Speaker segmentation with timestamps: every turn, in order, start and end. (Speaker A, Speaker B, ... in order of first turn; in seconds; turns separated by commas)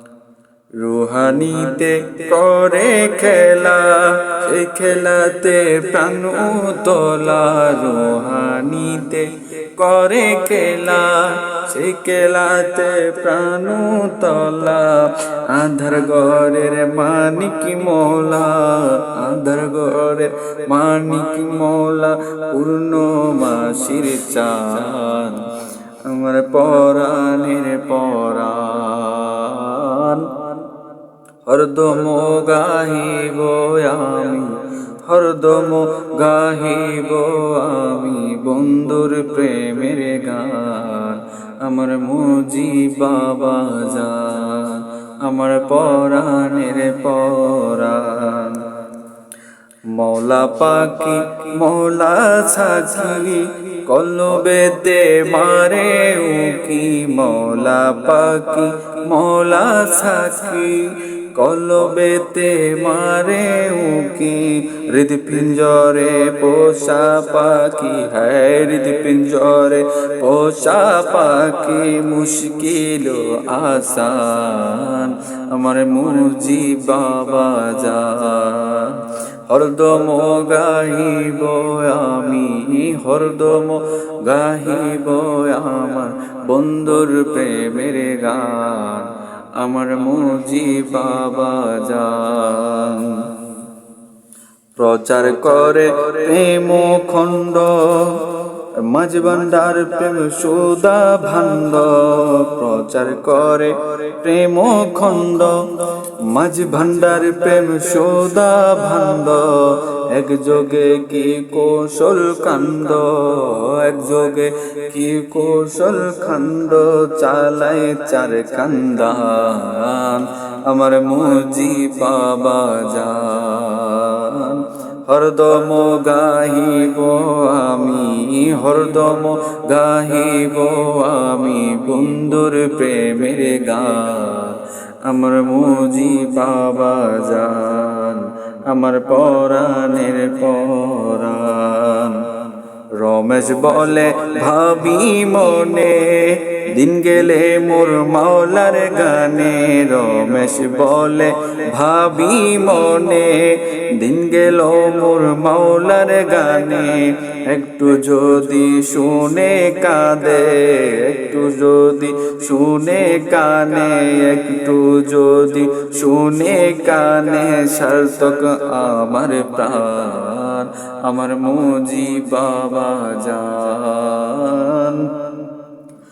Speaker A: 0.8-25.5, Speaker A: 26.0-30.6, Speaker A: 31.5-48.7, Speaker A: 49.9-93.3, Speaker A: 94.8-142.3, Speaker A: 143.0-175.5